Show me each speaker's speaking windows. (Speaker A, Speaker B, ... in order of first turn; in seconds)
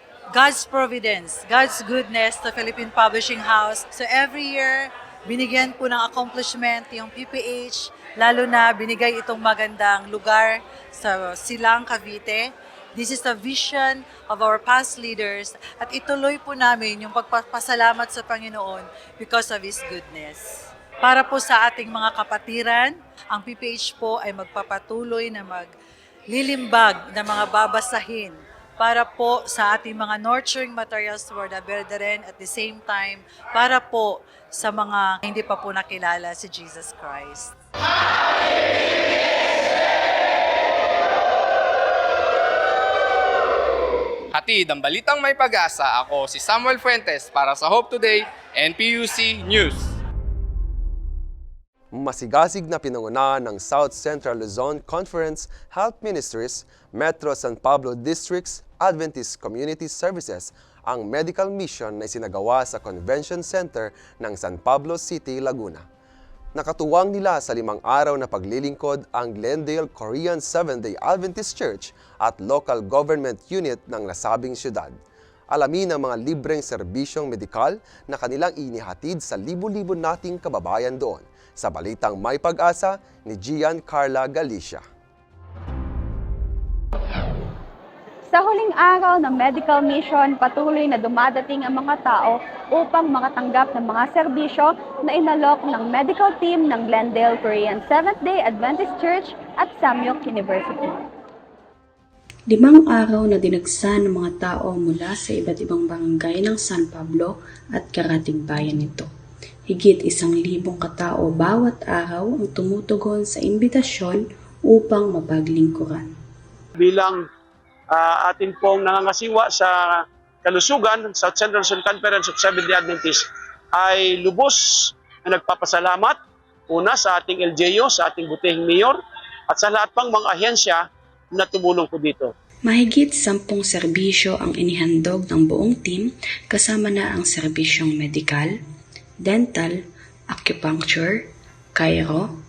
Speaker A: 0.3-25.7, 26.3-37.5
Speaker B: 44.3-49.9
Speaker C: 51.9-65.8, 66.5-75.0, 75.5-84.8
Speaker D: 88.3-101.0
Speaker E: 102.5-109.1, 109.7-116.1, 132.7-138.5, 139.2-139.8, 140.3-142.3
Speaker F: 116.8-117.2, 117.9-126.2, 126.7-129.0, 129.5-130.8, 131.4-132.3